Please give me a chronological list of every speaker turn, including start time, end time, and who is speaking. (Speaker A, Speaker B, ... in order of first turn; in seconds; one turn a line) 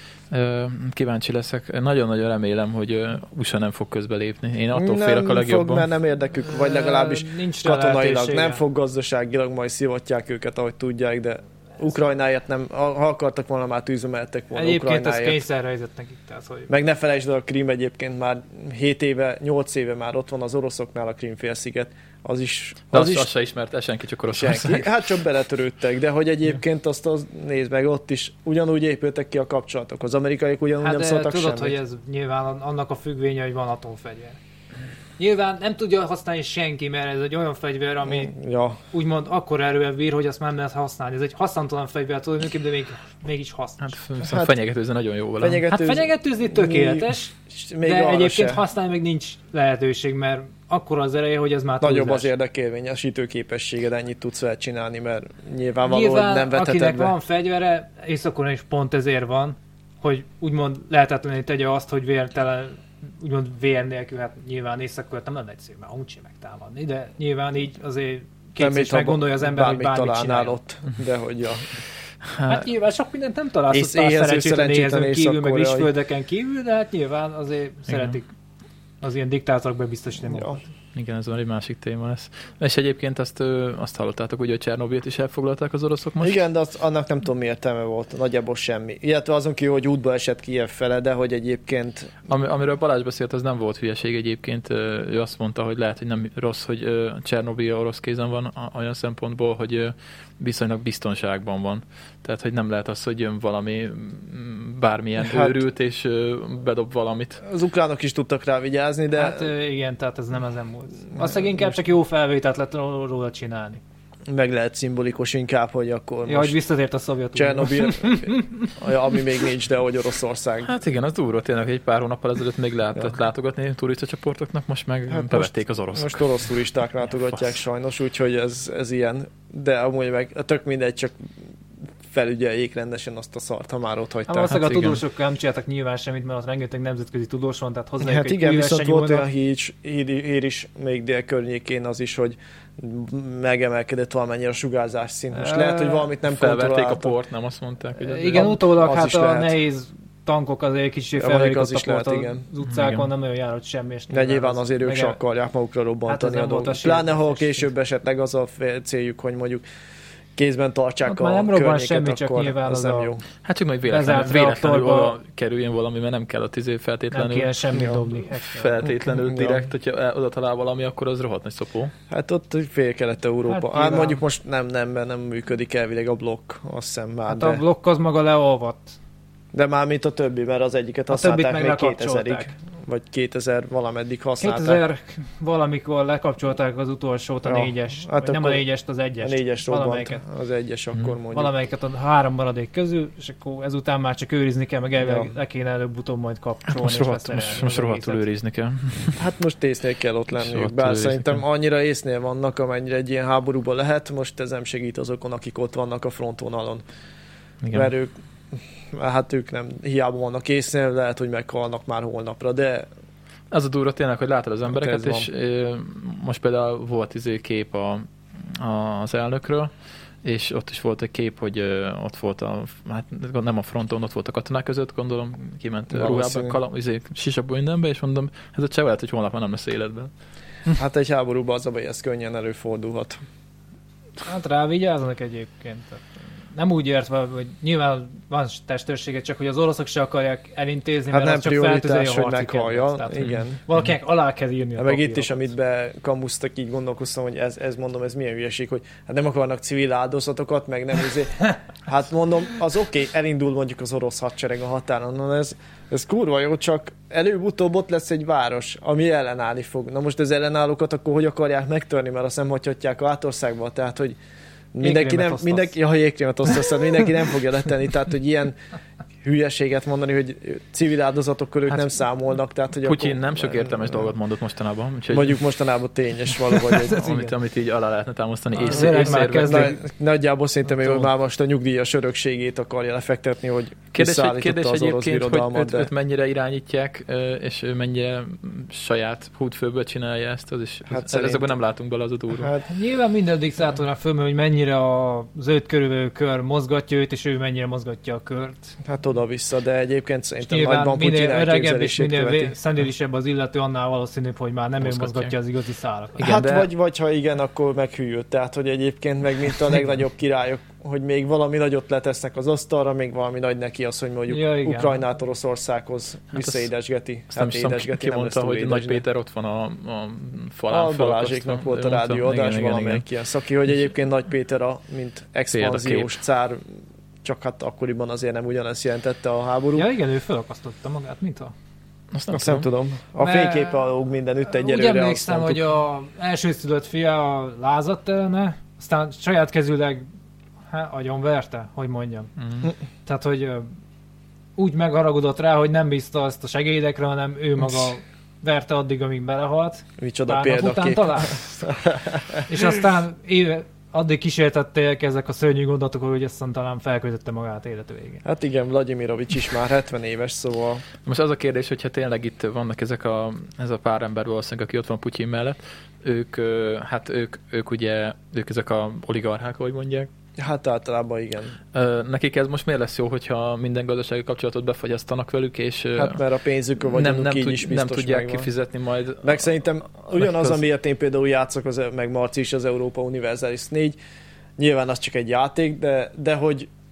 Speaker A: 0.3-5.9
Speaker B: 4.7-15.4
Speaker C: 6.4-8.6
Speaker C: 14.5-16.7
Speaker B: 16.7-23.3
Speaker A: 22.9-24.9
Speaker B: 24.3-31.8
Speaker C: 30.8-34.4
Speaker C: 35.2-38.3
Speaker B: 38.0-38.8
Speaker C: 38.9-44.0
Speaker A: 43.8-45.7
Speaker B: 44.2-44.5
Speaker B: 45.4-48.6
Speaker C: 45.7-52.3
Speaker B: 51.8-57.1
Speaker C: 55.9-70.5
Speaker B: 68.6-71.7
Speaker C: 72.5-78.3
Speaker B: 73.7-75.9
Speaker A: 77.9-78.2
Speaker C: 79.0-80.7
Speaker B: 80.2-80.6
Speaker A: 80.9-86.4
Speaker B: 86.2-92.1
Speaker A: 92.3-107.4
Speaker B: 105.2-105.6
Speaker B: 107.4-109.5
Speaker C: 109.1-113.8
Speaker B: 114.3-116.6
Speaker C: 116.2-118.7
Speaker B: 117.3-120.7
Speaker A: 120.6-126.3
Speaker B: 125.1-131.3
Speaker B: 132.1-134.6
Speaker C: 134.3-139.2
Speaker A: 134.4-135.0
Speaker B: 138.0-147.1
Speaker C: 145.3-146.1
Speaker A: 146.2-148.6
Speaker C: 147.9-155.2
Speaker B: 148.7-149.5
Speaker B: 151.2-152.4
Speaker A: 152.6-153.1
Speaker B: 154.1-159.6
Speaker C: 156.1-157.7
Speaker B: 160.3-163.2
Speaker C: 161.0-163.1
Speaker A: 163.4-167.6
Speaker C: 163.9-165.2
Speaker C: 167.1-168.9
Speaker B: 167.7-168.0
Speaker A: 168.4-171.9
Speaker B: 168.8-169.7
Speaker B: 172.1-177.6
Speaker C: 173.4-174.2
Speaker C: 177.3-178.9
Speaker B: 179.5-184.8
Speaker C: 181.1-182.5
Speaker C: 184.4-190.2
Speaker B: 187.4-188.6
Speaker B: 189.2-191.5
Speaker C: 191.3-198.2
Speaker B: 195.0-195.3
Speaker A: 196.7-199.2
Speaker B: 199.2-206.8
Speaker A: 200.3-201.4
Speaker A: 207.6-207.9
Speaker B: 207.7-212.9
Speaker A: 213.5-219.7
Speaker B: 214.7-215.3
Speaker A: 220.2-230.1
Speaker B: 225.9-226.6
Speaker B: 230.7-233.2
Speaker C: 234.2-245.5
Speaker B: 241.1-243.6
Speaker B: 244.8-264.2
Speaker B: 264.7-268.6
Speaker C: 264.8-265.7
Speaker B: 269.2-274.1
Speaker A: 272.8-275.4
Speaker B: 275.1-277.0
Speaker C: 276.7-277.3
Speaker A: 276.7-279.7
Speaker C: 278.5-279.8
Speaker B: 278.9-285.9
Speaker A: 283.9-292.5
Speaker B: 290.9-291.4
Speaker B: 292.3-292.6
Speaker C: 292.6-298.8
Speaker B: 298.8-302.5
Speaker C: 300.4-306.2
Speaker A: 304.8-305.3
Speaker A: 306.2-306.7
Speaker B: 306.2-319.0
Speaker C: 314.3-315.0
Speaker A: 316.3-316.7
Speaker A: 317.3-323.0
Speaker B: 320.7-326.6
Speaker A: 325.5-326.1
Speaker B: 327.2-329.9
Speaker C: 329.7-331.5
Speaker A: 332.1-332.7
Speaker B: 332.3-335.6
Speaker C: 333.2-333.8
Speaker C: 334.5-340.1
Speaker C: 340.7-342.3
Speaker A: 342.4-342.7
Speaker C: 343.0-343.7
Speaker C: 344.6-351.4
Speaker B: 350.0-352.7
Speaker C: 352.5-358.2
Speaker B: 358.2-360.8
Speaker A: 361.0-370.1
Speaker B: 370.4-371.6
Speaker A: 371.7-376.2
Speaker B: 375.9-378.5
Speaker A: 376.8-379.5
Speaker B: 379.2-384.0
Speaker A: 380.2-380.5
Speaker B: 384.6-386.7